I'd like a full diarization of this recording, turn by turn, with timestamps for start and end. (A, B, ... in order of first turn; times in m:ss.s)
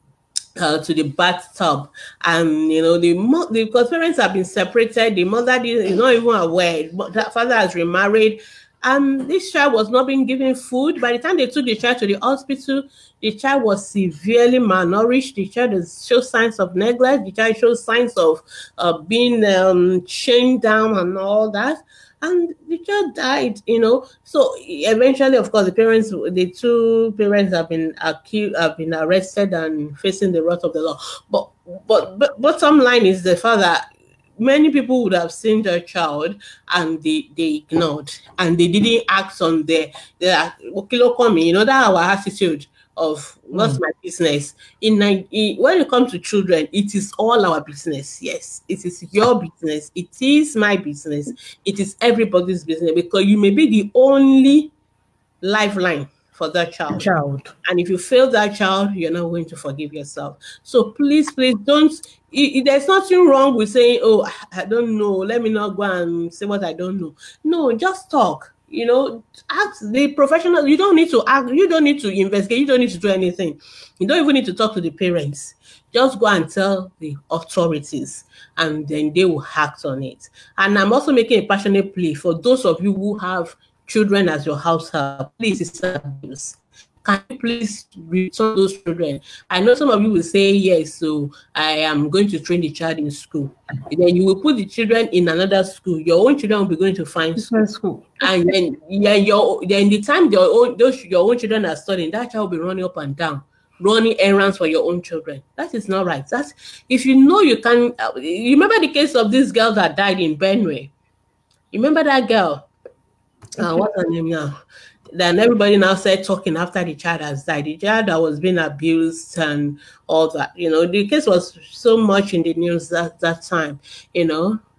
0:00.6-0:33.8 A
0:34.4-0:54.7 A
0:43.5-0:43.8 B
0:55.4-0:57.0 A
0:56.9-0:57.5 B
0:57.6-1:37.5 A
1:37.4-1:38.3 B
1:38.2-1:50.9 A
1:51.7-1:52.7 A
1:53.6-1:53.8 B
1:53.6-1:54.6 A
1:55.1-2:04.6 A